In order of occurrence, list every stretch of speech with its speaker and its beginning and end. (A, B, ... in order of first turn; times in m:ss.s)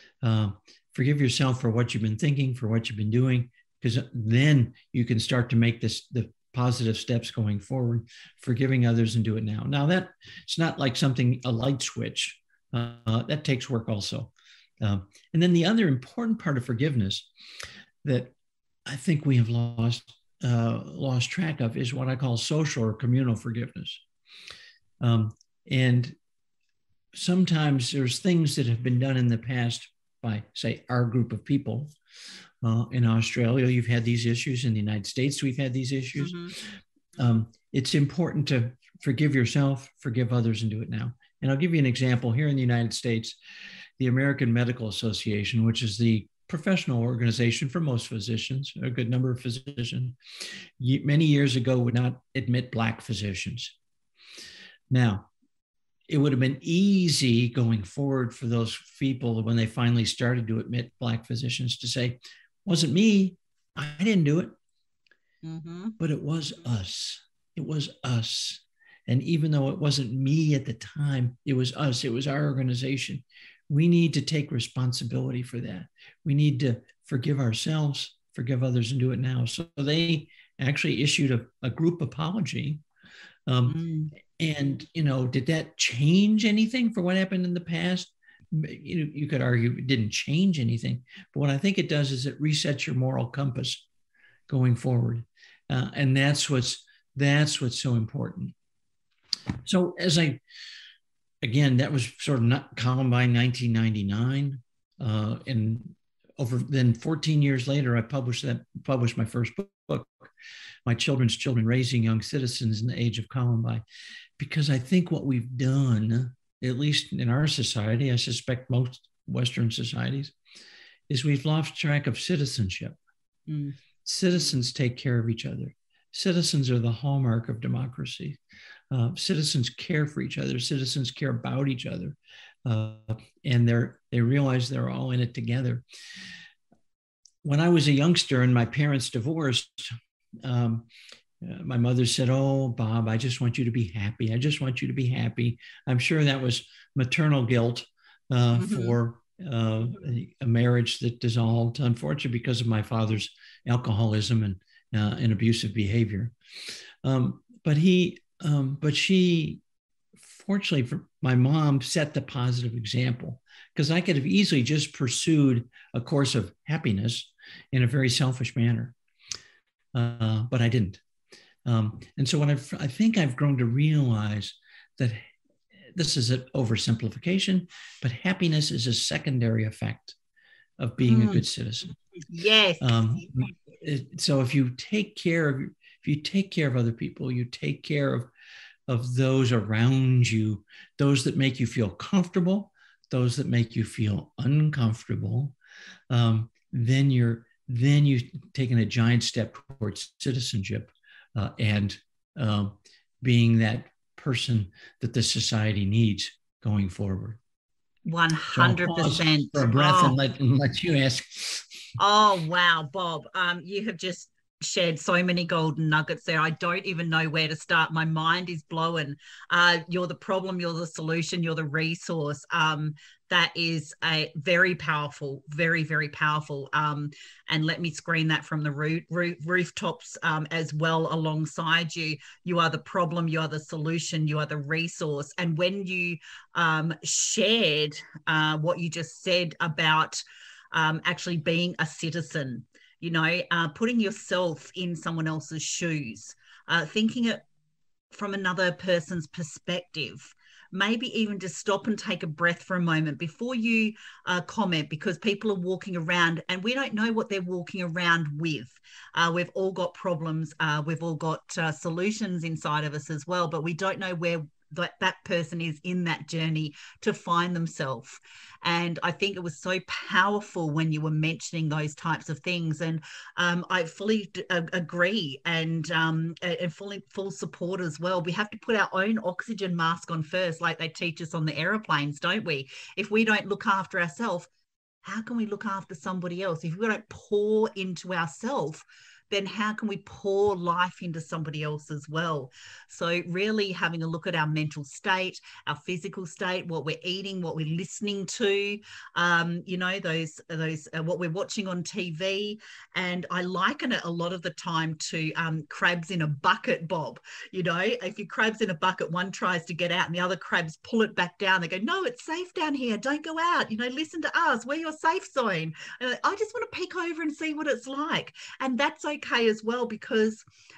0:00.2-0:17.3 A
0:18.0-0:18.3 A
0:18.9-0:24.0 A
0:25.0-0:26.1 A
0:27.1-0:31.9 A
0:32.6-0:43.4 A
0:36.2-0:36.5 B
0:44.0-0:50.2 A
0:50.8-0:53.8 A
0:54.9-0:55.3 A
0:56.1-1:04.5 A
1:05.4-1:06.0 B
1:06.0-1:22.8 A
1:23.5-1:33.8 A
1:23.7-1:24.1 B
1:34.5-1:38.5 A
1:39.6-1:40.4 A
1:41.4-1:50.3 A
1:50.8-1:53.8 A
1:54.4-2:00.3 A
2:01.1-2:03.0 A
2:03.5-2:03.8 B
2:04.0-2:08.4 A
2:08.9-2:15.8 A
2:17.4-2:20.9 A
2:21.4-2:36.3 A
2:28.6-2:29.0 B
2:37.0-2:39.6 A
2:40.2-2:48.9 A
2:49.9-2:51.0 A
2:51.6-2:55.3 A
2:55.9-3:00.2 A
3:00.8-3:01.9 A
3:01.0-3:01.4 B
3:02.2-3:03.3 B
3:02.8-3:08.3 A
3:08.9-3:15.6 A
3:16.1-3:27.4 A
3:28.0-3:30.2 B
3:28.5-3:31.7 A
3:32.0-4:00.2 B
4:00.7-4:07.4 B
4:08.1-4:44.5 B
4:45.0-5:20.4 B